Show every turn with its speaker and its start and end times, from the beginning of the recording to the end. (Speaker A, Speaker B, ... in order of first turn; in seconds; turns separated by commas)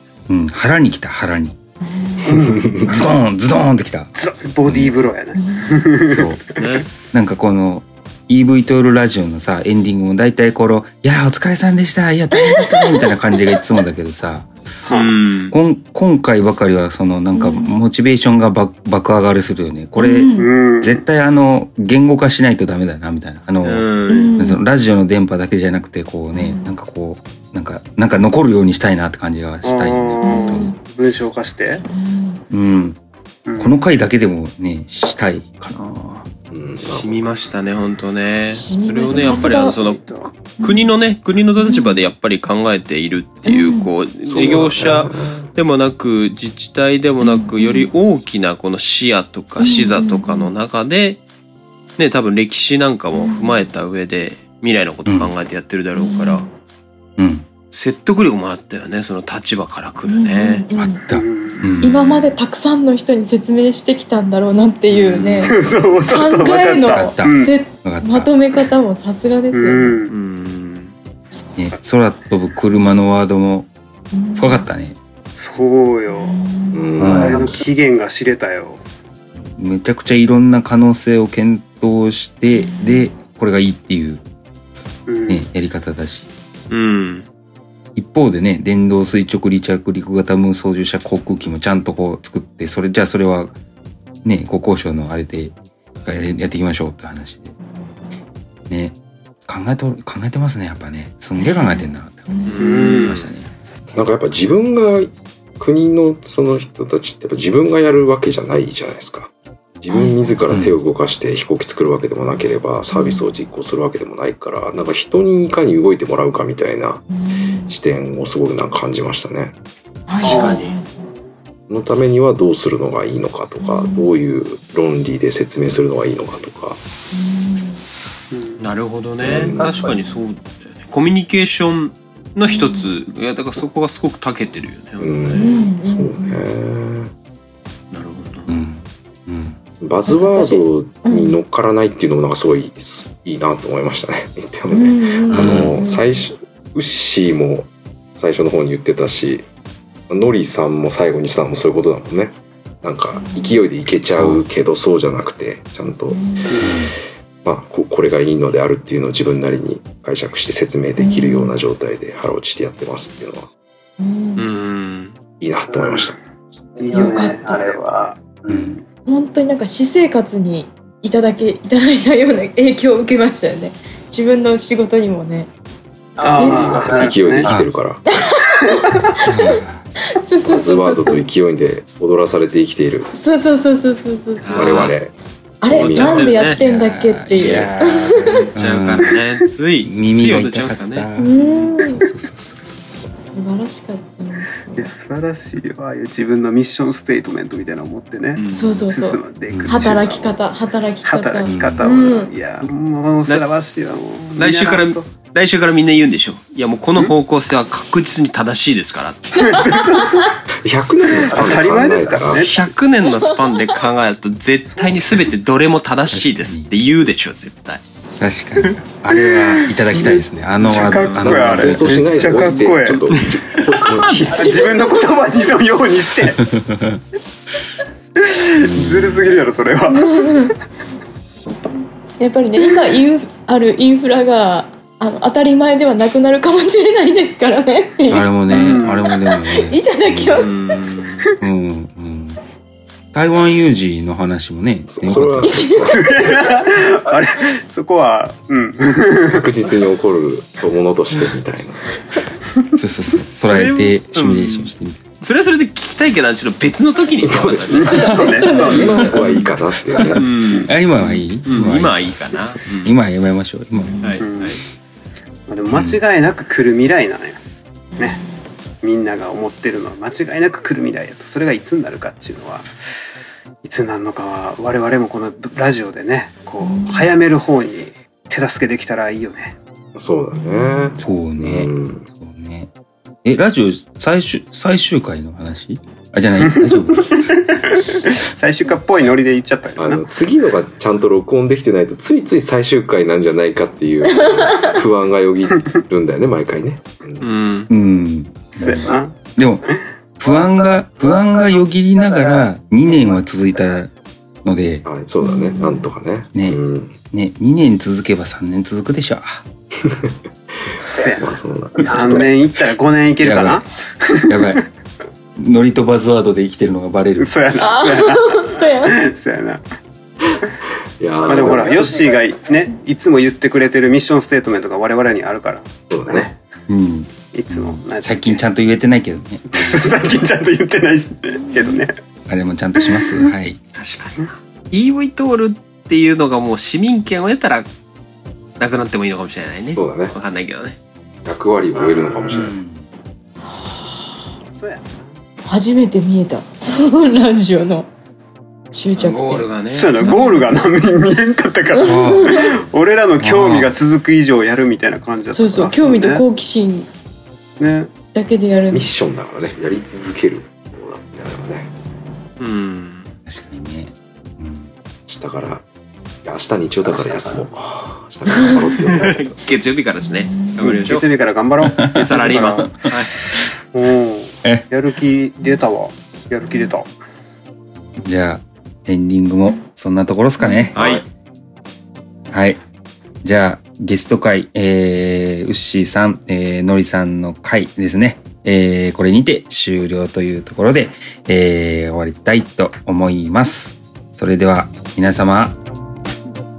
Speaker A: 0.3-1.6, Speaker B: 1.8-2.3, Speaker C: 2.2-2.6, Speaker D: 2.4-3.0, Speaker A: 2.9-4.1, Speaker C: 4.1-6.9, Speaker A: 4.6-4.9, Speaker B: 5.3-5.7, Speaker A: 6.1-6.4, Speaker E: 6.6-6.9, Speaker A: 7.0-14.5, Speaker B: 12.3-13.1, Speaker C: 14.8-15.2, Speaker E: 14.9-15.6, Speaker A: 15.5-30.7, Speaker B: 17.3-17.8, Speaker B: 20.0-20.5, Speaker C: 20.3-21.0, Speaker E: 23.6-24.3, Speaker B: 24.1-24.6, Speaker B: 26.3-26.7, Speaker C: 29.6-31.8, Speaker B: 30.2-30.8, Speaker B: 31.8-32.4, Speaker A: 32.5-33.0, Speaker C: 33.5-33.8, Speaker A: 33.6-36.2, Speaker D: 36.5-37.5, Speaker E: 36.8-51.2, Speaker B: 38.5-39.8, Speaker A: 39.1-39.4, Speaker C: 39.2-40.3, Speaker B: 40.6-40.9, Speaker B: 41.6-42.0, Speaker B: 43.5-43.9, Speaker D: 44.2-45.5, Speaker B: 47.2-47.9, Speaker B: 49.6-50.5, Speaker E: 52.0-56.5, Speaker B: 53.1-53.6, Speaker A: 55.0-55.4, Speaker B: 55.9-56.5, Speaker A: 57.2-57.5, Speaker E: 57.7-60.7, Speaker B: 60.1-61.0, Speaker A: 60.7-62.0, Speaker C: 61.1-61.8, Speaker B: 61.8-70.0, Speaker E: 64.9-65.5, Speaker C: 65.4-67.6, Speaker A: 66.9-68.3, Speaker C: 69.5-70.1, Speaker E: 70.1-70.9, Speaker A: 71.6-73.7, Speaker B: 74.1-74.7, Speaker A: 74.3-75.0, Speaker C: 75.3-76.4, Speaker B: 76.1-76.8, Speaker D: 76.7-77.6, Speaker A: 77.0-77.5, Speaker C: 77.0-78.8, Speaker A: 79.5-84.2, Speaker B: 82.5-83.1, Speaker C: 85.1-85.4, Speaker A: 85.3-86.3, Speaker E: 86.7-87.2, Speaker A: 88.0-93.5, Speaker A: 94.2-97.5, Speaker A: 98.7-103.5, Speaker B: 101.4-102.5, Speaker E: 102.5-103.3, Speaker C: 102.6-103.1, Speaker D: 104.0-117.0, Speaker B: 109.9-110.3, Speaker A: 110.5-110.8, Speaker B: 112.9-113.3, Speaker B: 117.1-117.7, Speaker D: 117.7-119.5, Speaker B: 120.1-120.9, Speaker C: 120.2-121.3, Speaker E: 120.3-120.8, Speaker D: 121.7-126.8, Speaker B: 123.6-124.1, Speaker B: 127.1-127.8, Speaker C: 128.3-128.7, Speaker E: 128.6-135.8, Speaker D: 129.2-129.9, Speaker B: 132.4-132.9, Speaker D: 135.0-137.1, Speaker B: 135.3-136.4, Speaker E: 137.9-138.5, Speaker A: 138.5-139.6, Speaker D: 139.8-149.4, Speaker B: 140.1-141.4, Speaker B: 144.7-146.2, Speaker A: 145.3-145.7, Speaker D: 150.1-156.2, Speaker B: 153.1-153.6, Speaker A: 154.1-154.4, Speaker B: 156.1-156.5, Speaker C: 156.5-156.8, Speaker A: 156.6-156.9, Speaker D: 157.4-163.5, Speaker B: 161.0-161.5, Speaker B: 164.0-164.5, Speaker E: 164.3-165.2, Speaker D: 165.4-166.2, Speaker C: 165.7-166.2, Speaker C: 166.8-168.8, Speaker B: 166.9-167.7, Speaker A: 168.5-168.8, Speaker B: 169.1-175.5, Speaker C: 176.2-177.5, Speaker D: 176.2-178.0, Speaker B: 176.4-176.7, Speaker A: 177.4-177.7, Speaker B: 178.1-179.3, Speaker A: 179.3-179.8, Speaker B: 180.2-181.2, Speaker D: 180.4-183.1, Speaker B: 183.1-185.0, Speaker E: 184.4-184.9, Speaker D: 184.5-185.1, Speaker B: 185.6-188.2, Speaker D: 185.7-186.5, Speaker E: 185.7-186.6, Speaker A: 186.5-189.2, Speaker E: 188.2-191.8, Speaker A: 189.8-193.1, Speaker B: 191.2-191.9, Speaker B: 193.1-194.8, Speaker C: 194.8-205.1, Speaker E: 198.3-198.8, Speaker B: 198.5-202.3, Speaker A: 199.5-199.8, Speaker A: 201.4-201.8, Speaker E: 204.4-209.4, Speaker C: 209.4-210.3, Speaker B: 209.5-210.0, Speaker D: 210.6-212.6, Speaker C: 211.0-212.6, Speaker E: 212.4-217.8, Speaker C: 214.7-215.4, Speaker A: 216.1-216.7, Speaker A: 218.2-222.0, Speaker C: 219.1-223.0, Speaker E: 220.9-221.3, Speaker D: 221.3-224.7, Speaker C: 224.3-226.4, Speaker A: 226.2-227.0, Speaker C: 228.2-230.3, Speaker A: 228.6-229.3, Speaker B: 229.9-230.5, Speaker B: 232.2-238.7, Speaker A: 238.1-240.5, Speaker E: 238.5-238.8, Speaker C: 238.7-239.1, Speaker B: 239.3-240.6, Speaker E: 240.3-241.3, Speaker A: 241.4-242.4, Speaker A: 243.1-245.7, Speaker D: 244.9-246.3, Speaker B: 245.4-245.9, Speaker C: 245.9-249.5, Speaker D: 249.3-251.9, Speaker A: 252.8-255.1, Speaker E: 253.2-257.9, Speaker D: 257.2-260.3, Speaker C: 257.7-259.1, Speaker B: 257.9-259.5, Speaker E: 258.6-259.0, Speaker E: 260.1-263.0, Speaker A: 260.7-264.1, Speaker B: 263.7-264.2, Speaker E: 264.0-264.6, Speaker C: 264.2-264.6, Speaker C: 265.5-267.4, Speaker A: 265.7-266.0, Speaker B: 267.9-268.3, Speaker C: 268.8-272.7, Speaker C: 273.6-279.6, Speaker B: 276.6-277.1, Speaker D: 279.9-282.0, Speaker A: 281.0-282.7, Speaker A: 283.2-287.0, Speaker C: 286.4-290.0, Speaker D: 289.8-297.3, Speaker E: 297.2-297.7, Speaker A: 297.7-299.6, Speaker C: 298.6-303.2, Speaker A: 300.2-303.9, Speaker A: 304.4-304.9, Speaker D: 304.8-306.9, Speaker B: 305.2-305.9, Speaker A: 306.3-309.4, Speaker D: 309.8-310.1, Speaker D: 310.7-312.4, Speaker C: 310.8-314.6, Speaker A: 313.2-313.6, Speaker A: 314.3-314.6, Speaker A: 315.4-317.4, Speaker C: 317.2-319.6, Speaker B: 317.6-318.9, Speaker D: 321.0-322.2, Speaker C: 321.2-326.4, Speaker D: 325.9-326.3, Speaker A: 326.7-330.0, Speaker C: 327.3-328.4, Speaker C: 329.5-331.9, Speaker B: 331.4-331.8, Speaker A: 332.3-333.6, Speaker E: 333.8-337.7, Speaker E: 338.6-340.8, Speaker D: 339.7-340.2, Speaker D: 341.2-342.5, Speaker C: 341.7-342.5, Speaker A: 342.4-342.9, Speaker C: 344.6-345.2, Speaker B: 345.4-347.9, Speaker B: 348.7-349.5, Speaker E: 348.9-350.0, Speaker C: 349.7-356.2, Speaker B: 350.0-350.5, Speaker B: 351.7-352.4, Speaker A: 351.8-352.3, Speaker A: 353.2-353.7, Speaker B: 355.3-356.9, Speaker C: 357.6-357.9, Speaker B: 358.1-358.9, Speaker D: 358.7-361.7, Speaker E: 362.4-363.1, Speaker A: 363.2-364.7, Speaker D: 365.1-365.6, Speaker D: 366.2-369.4, Speaker C: 368.9-369.3, Speaker E: 369.1-371.1, Speaker B: 370.1-370.6, Speaker C: 370.6-372.7, Speaker A: 371.6-373.4, Speaker E: 372.0-373.1, Speaker C: 373.7-376.9, Speaker A: 374.4-374.7, Speaker A: 378.0-380.9, Speaker B: 380.4-380.7, Speaker E: 380.7-381.0, Speaker D: 380.7-381.0, Speaker A: 382.3-382.6, Speaker A: 383.2-395.6